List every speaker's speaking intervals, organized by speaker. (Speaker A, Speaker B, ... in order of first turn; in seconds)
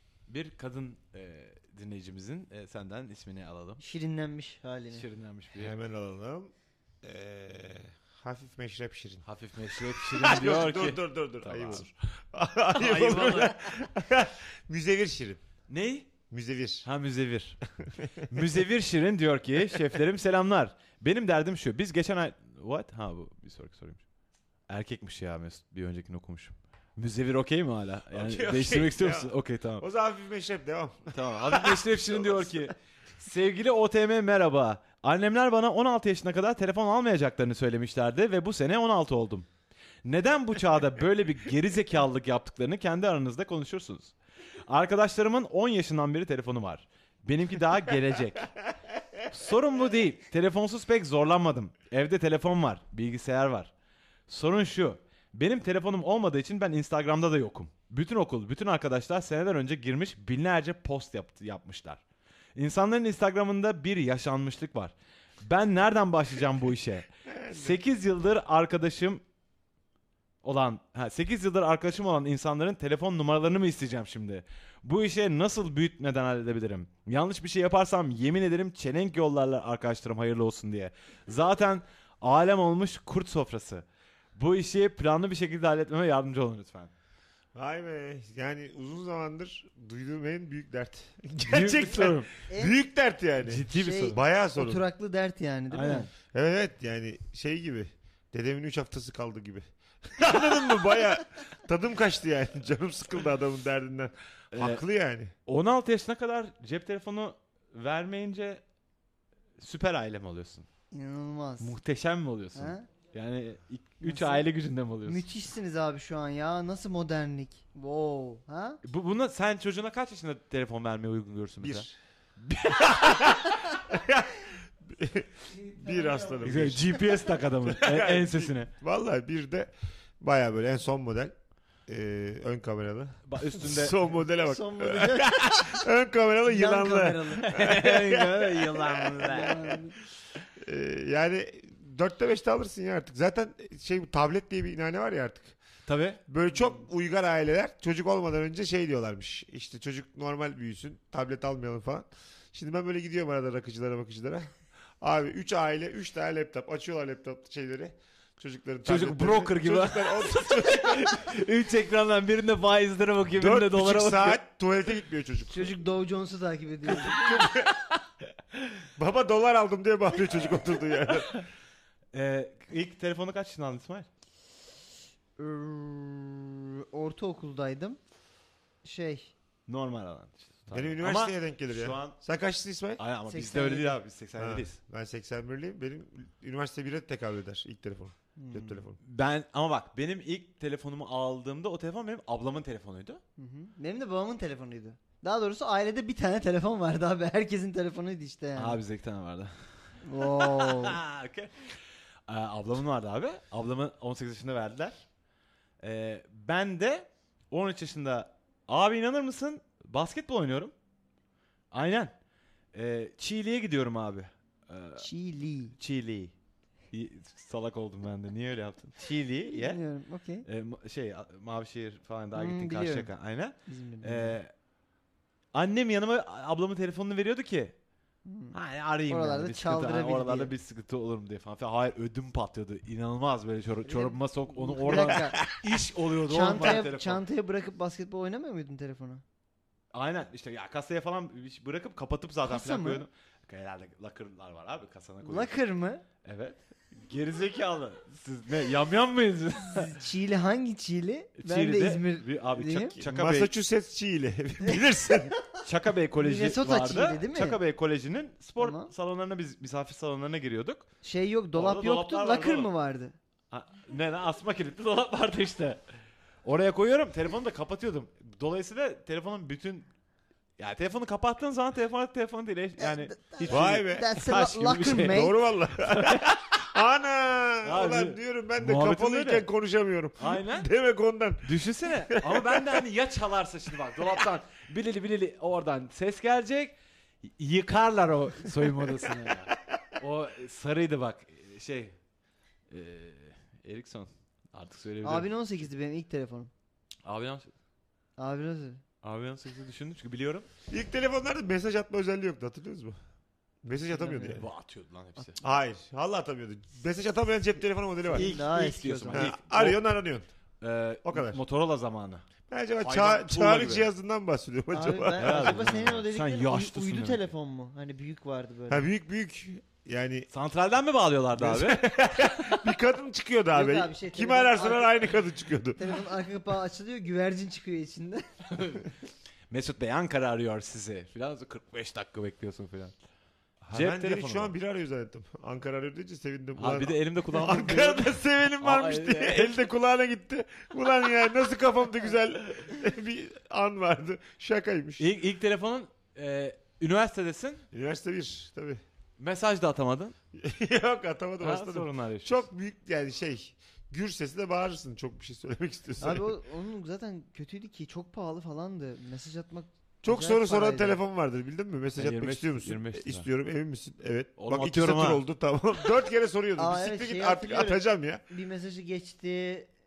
Speaker A: 0.3-3.8, 4.9-5.7, 9.2-11.9, 12.7-13.6, 15.7-16.1, 16.8-17.6, 18.3-24.0, 24.7-29.9, 31.1-39.5, 40.0-44.1, 44.7-48.5, 49.2-53.7, 54.3-62.0, 62.5-69.2, 70.4-83.8, 84.3-86.9, 91.4-92.3, 93.4-94.2, 95.7-96.1, 104.5-104.8, 105.5-108.6, 109.6-110.7, 111.6-115.3, 118.8-121.9, 122.4-123.5, 126.4-128.7, 133.2-134.0, 137.4-139.8, 145.9-146.2, 158.8-164.4, 172.1-174.1, 179.7-182.2, 183.0-184.8, 189.0-193.2, 198.6-205.0, 205.8-210.7, 211.7-212.1, 212.7-215.1, 215.8-216.3, 216.9-219.8, 220.4-224.5, 225.5-227.8, 228.5-237.2, 239.9-245.6, 246.2-250.0, 251.4-253.5, 255.6-260.9, 261.5-262.7, 263.5-265.8, 266.4-269.9, 270.6-275.3, 275.8-276.5, 277.6-279.4, 280.2-280.7, 281.4-291.9, 292.7-295.3, 297.0-297.5, 299.0-300.5, 304.2-305.4, 308.1-309.8, 310.6-312.2, 312.8-313.9, 315.2-317.2, 320.3-322.5, 328.5-328.9, 329.5-332.9, 333.7-334.5, 336.6-339.6, 345.0-347.6, 349.2-350.1, 351.4-352.4, 362.0-363.3, 364.4-365.2
Speaker B: 3.8-5.0, 92.5-92.8, 93.7-96.1, 110.9-111.8, 112.5-112.9, 114.0-114.5, 115.0-118.8, 125.5-126.8, 134.4-135.8, 136.4-137.5, 139.2-139.9, 165.5-167.3, 175.4-178.0, 178.8-179.3, 183.3-184.0, 188.4-188.8, 193.4-198.8, 200.0-201.0, 215.0-215.7, 219.5-220.4, 222.3-223.1, 223.7-224.4, 228.2-228.6, 229.1-230.5, 233.8-235.4, 236.3-239.2, 242.4-243.0, 245.2-246.0, 249.7-253.0, 256.2-257.6, 258.6-258.9, 261.0-263.1, 272.8-275.3, 295.0-296.5, 298.2-298.8, 303.9-304.4, 308.1-309.3, 314.7-318.9, 323.5-325.0, 325.8-328.2, 356.0-361.0, 366.6-369.7
Speaker C: 5.5-15.4, 16.3-16.9, 28.1-32.7, 67.3-67.8, 87.5-94.8, 96.3-105.3, 121.6-121.9, 122.8-127.0, 127.6-131.3, 131.9-139.3, 140.6-145.6, 146.3-161.3, 163.3-165.8, 166.9-167.7, 169.0-171.4, 180.7-183.0, 184.4-189.0, 253.0-255.3, 273.5-274.1, 275.1-282.8, 300.7-303.0, 303.6-304.4, 305.4-308.3, 309.1-310.3, 311.0-311.4, 312.5-315.8, 318.7-320.3, 321.4-325.8, 333.6-345.1, 347.7-348.8, 350.3-356.3, 360.0-368.2